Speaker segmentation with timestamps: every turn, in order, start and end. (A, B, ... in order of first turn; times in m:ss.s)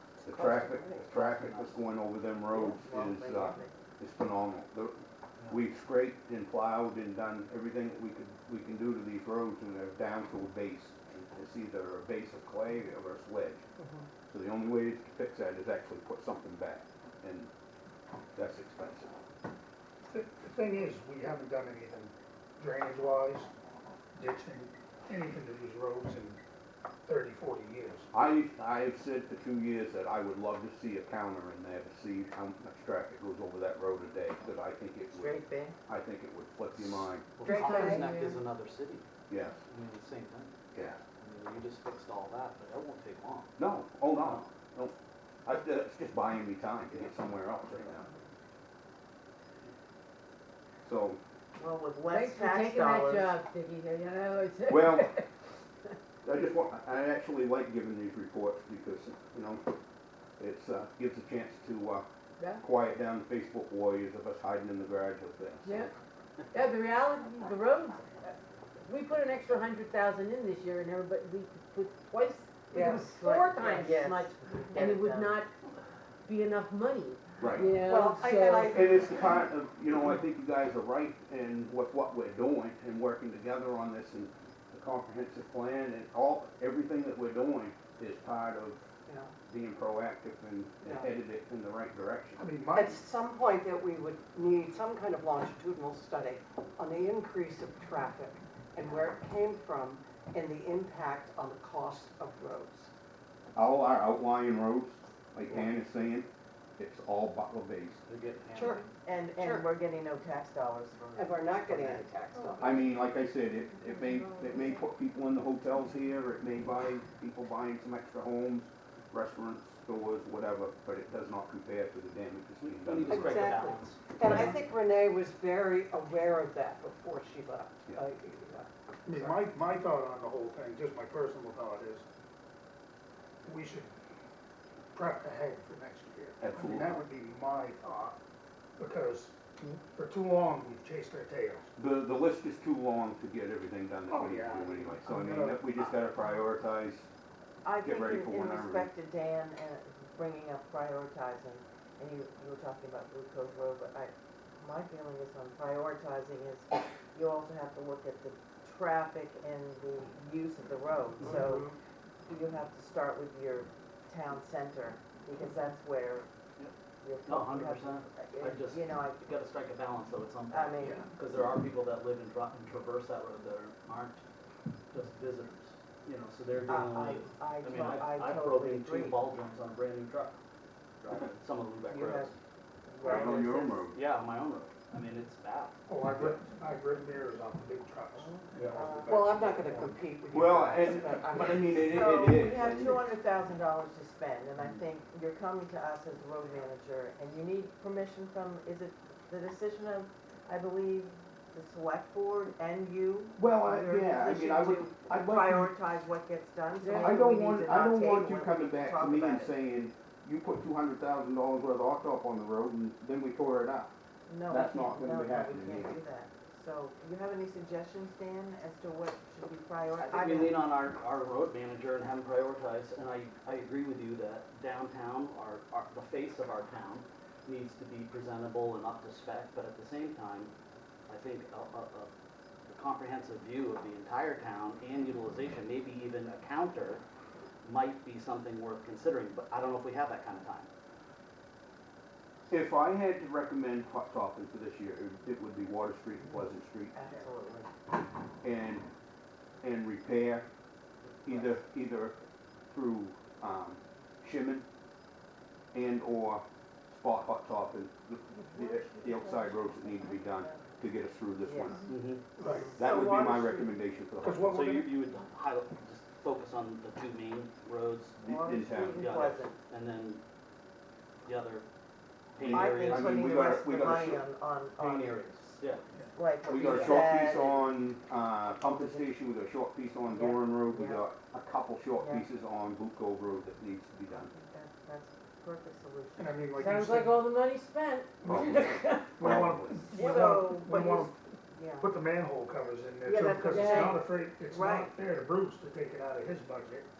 0:00.2-0:04.9 A
0:00.2-0:01.8 B
0:02.5-0:03.7 C
0:05.5-0:13.6 A
0:14.3-0:17.5 A
0:18.3-0:19.1 A
0:20.0-0:23.5 D
0:24.2-0:26.4 D
0:27.0-0:28.1 D
0:28.1-0:37.3 A
0:35.1-0:35.7 C
0:37.4-0:39.0 B
0:37.4-0:38.1 C
0:37.5-0:38.4 E
0:39.3-0:39.6 A
0:39.7-0:40.6 B
0:40.7-0:41.0 A
0:41.1-0:43.6 B
0:43.6-0:44.9 A
0:44.1-0:44.5 B
0:45.4-0:48.1 A
0:50.8-0:51.2 A
0:51.6-0:53.4 C
0:52.1-0:55.3 E
0:54.6-0:55.2 A
0:56.2-0:59.7 A
1:00.4-1:02.0 A
1:02.6-1:05.9 A
1:05.6-1:05.9 E
1:06.5-1:15.5 E
1:12.7-1:15.4 C
1:16.2-1:18.9 E
1:17.4-1:17.8 A
1:17.8-1:19.5 F
1:18.7-1:28.9 A
1:29.0-1:29.3 F
1:29.5-1:32.4 A
1:30.8-1:31.1 F
1:32.4-1:33.0 D
1:32.7-1:42.9 F
1:43.5-1:48.0 A
1:48.1-1:48.8 B
1:48.5-1:49.7 F
1:49.0-1:51.2 C
1:51.1-1:52.7 F
1:52.6-2:03.4 A
2:02.6-2:04.5 B
2:03.0-2:09.4 F
2:09.0-2:12.0 D
2:13.4-2:13.9 D
2:14.9-2:18.2 D
2:16.4-2:17.0 A
2:18.8-2:21.7 D
2:21.8-2:27.1 A
2:24.1-2:25.6 D
2:27.6-2:41.7 C
2:27.8-2:28.9 A
2:41.2-2:41.7 F
2:42.2-2:46.3 C
2:47.0-2:49.2 C
2:47.2-2:54.2 B
2:50.5-2:51.1 C
2:54.9-3:00.4 B
2:56.6-2:59.2 C
3:01.0-3:02.4 B
3:01.9-3:02.3 C
3:02.8-3:03.9 C
3:03.0-3:03.4 D
3:03.0-3:04.0 A
3:03.9-3:05.8 B
3:05.9-3:10.0 D
3:08.2-3:09.2 C
3:09.0-3:12.5 F
3:10.3-3:13.1 A
3:11.9-3:29.5 C
3:23.4-3:25.8 A
3:26.8-3:27.5 E
3:26.9-3:33.9 A
3:34.3-3:40.6 C
3:34.5-3:36.0 A
3:40.0-3:50.5 B
3:51.1-3:52.1 B
3:52.7-3:57.0 B
3:57.6-4:00.7 B
4:02.5-4:06.9 A
4:06.9-4:07.7 C
4:08.4-4:08.9 A
4:09.6-4:10.5 A
4:11.2-4:12.2 A
4:12.7-4:14.6 A
4:15.7-4:21.9 A
4:21.4-4:21.8 C
4:21.9-4:22.2 B
4:22.4-4:22.9 D
4:22.4-4:23.7 C
4:22.7-4:24.6 A
4:24.2-4:24.9 D
4:24.4-4:28.2 B
4:28.2-4:29.0 A
4:28.2-4:29.5 C
4:28.8-4:30.2 B
4:31.2-4:31.6 B
4:32.3-4:33.5 B
4:32.4-4:34.2 A
4:32.4-4:35.6 C
4:34.8-4:35.8 B
4:36.1-4:37.6 C
4:36.4-4:44.3 A
4:36.5-4:37.1 B
4:38.6-4:39.1 C
4:40.1-4:41.0 C
4:42.0-4:42.2 C
4:44.1-4:46.4 C
4:46.2-4:47.2 D
4:46.5-4:50.7 E
4:48.2-4:51.1 D
4:48.3-4:49.8 A
4:49.9-4:51.9 C
4:51.8-4:56.9 D
4:53.0-4:54.9 C
4:53.5-4:54.0 E